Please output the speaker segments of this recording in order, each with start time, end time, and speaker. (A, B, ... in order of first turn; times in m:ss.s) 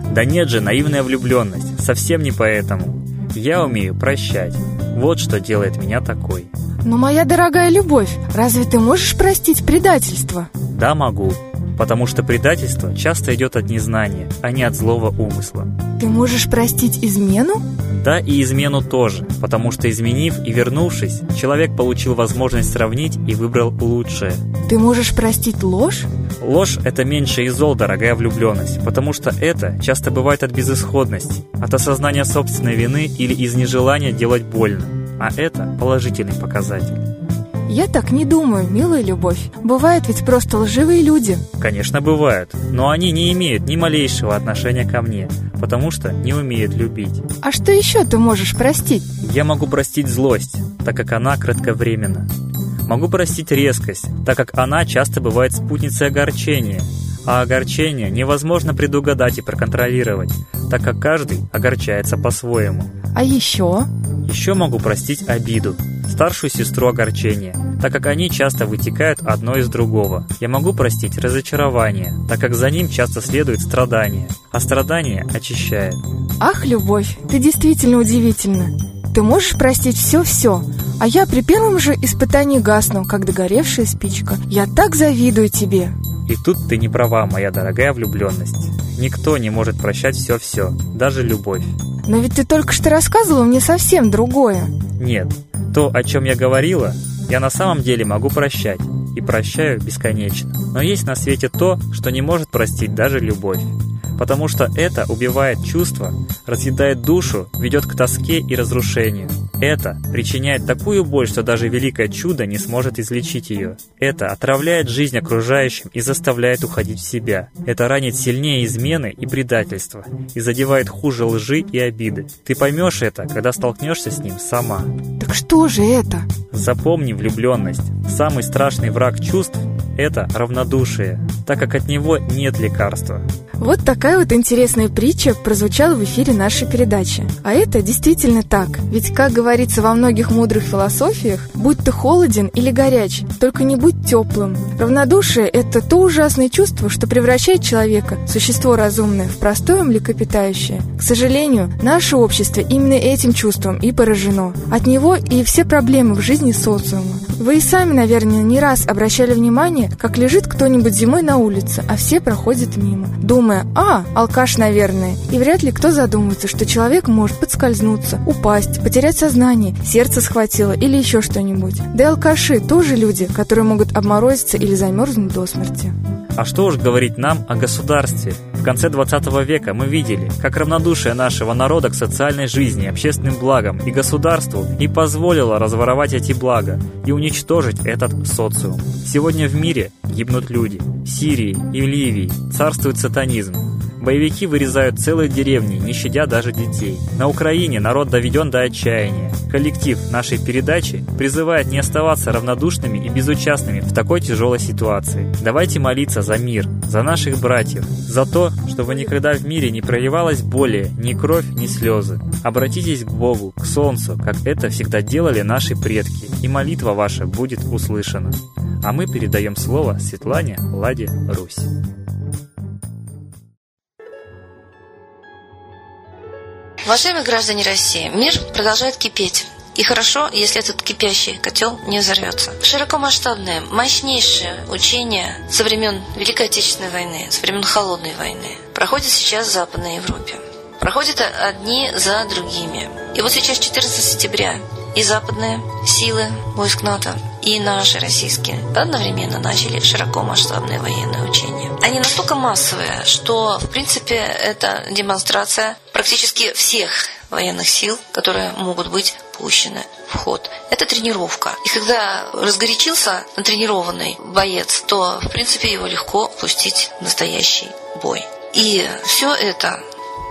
0:00.1-0:06.5 A
0:06.8-0:10.5 B
0:10.7-0:15.7 A
0:16.0-0:17.6 B
0:17.9-0:24.4 A
0:24.7-0:26.1 B
0:26.4-0:37.0 A
0:37.7-0:41.4 B
0:41.6-0:47.2 A
0:47.4-0:49.0 B
0:49.2-0:52.3 A
0:52.8-1:02.9 A
1:03.2-1:03.9 B
1:04.2-1:16.0 A
1:16.4-1:25.9 B
1:26.3-1:31.7 A
1:32.1-1:34.7 B
1:35.0-2:04.9 A
2:05.2-2:06.3 B
2:06.5-2:13.2 A
2:13.6-2:55.9 B
2:56.4-3:41.7 A
3:46.8-4:29.8 C